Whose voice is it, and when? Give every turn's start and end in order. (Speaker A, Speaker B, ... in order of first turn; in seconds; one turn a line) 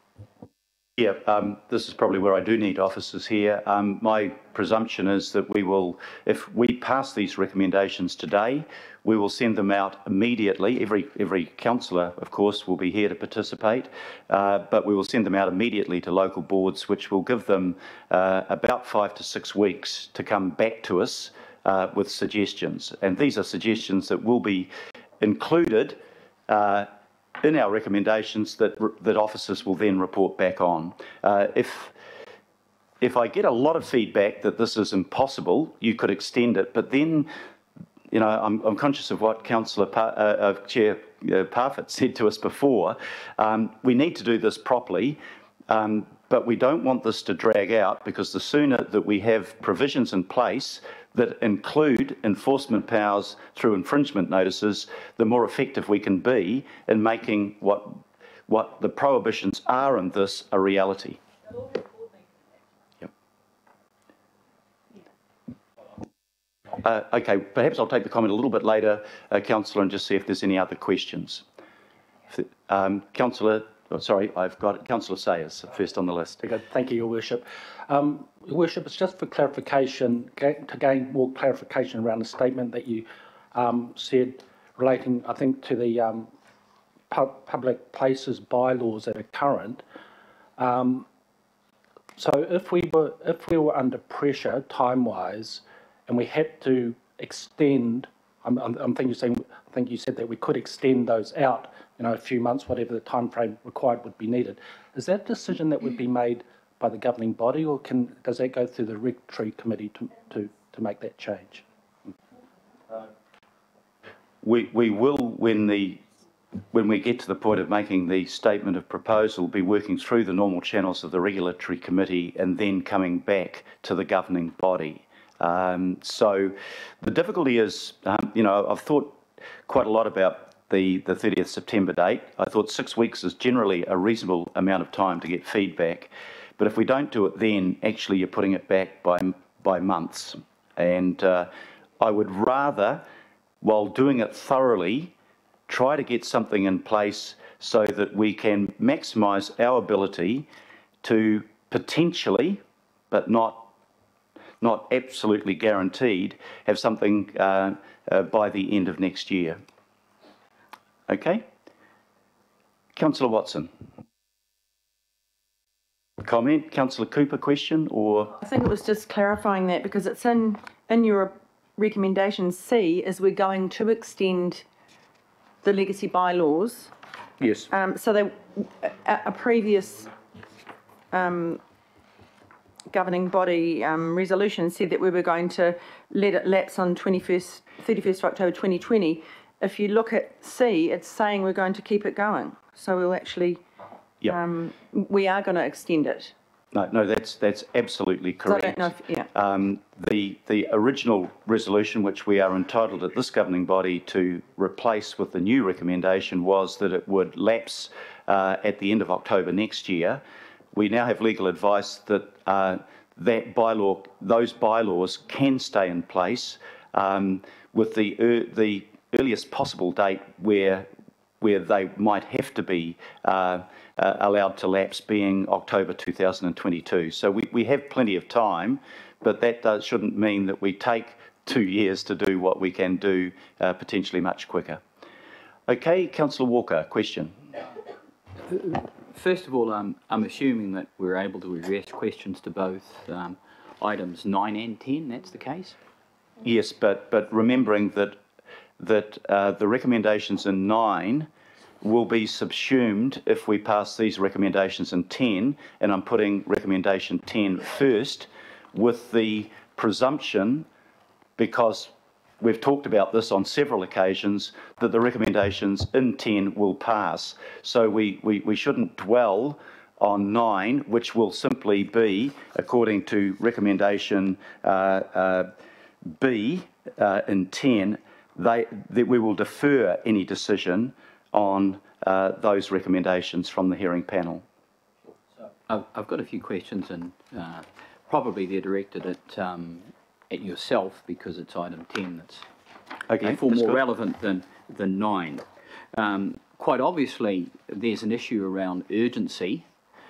Speaker A: 1.0-26.9
Speaker A: 27.4-31.9
Speaker A: 33.0-37.3
Speaker A: 38.1-61.2
Speaker A: 66.8-71.4
Speaker A: 72.3-76.4
Speaker B: 76.4-86.3
Speaker B: 87.1-89.8
Speaker B: 90.6-91.1
Speaker B: 92.2-111.6
Speaker A: 114.4-116.0
Speaker A: 116.7-143.0
Speaker A: 143.6-145.1
Speaker A: 145.7-150.5
Speaker A: 151.0-153.7
Speaker A: 154.6-159.6
Speaker A: 161.1-161.4
Speaker A: 162.9-163.7
Speaker A: 166.2-168.3
Speaker C: 168.4-174.6
Speaker C: 175.6-176.9
Speaker C: 177.7-180.1
Speaker C: 181.1-181.6
Speaker C: 182.9-193.6
Speaker C: 194.3-196.3
Speaker A: 196.7-210.2
Speaker C: 198.4-199.3
Speaker A: 210.7-220.9
Speaker A: 221.4-234.8
Speaker A: 235.7-237.4
Speaker D: 238.5-245.8
Speaker A: 246.4-248.2
Speaker A: 248.8-251.3
Speaker A: 251.8-260.7
Speaker A: 261.4-275.5
Speaker A: 276.1-284.4
Speaker D: 285.7-292.5
Speaker A: 293.1-293.8
Speaker D: 293.2-299.6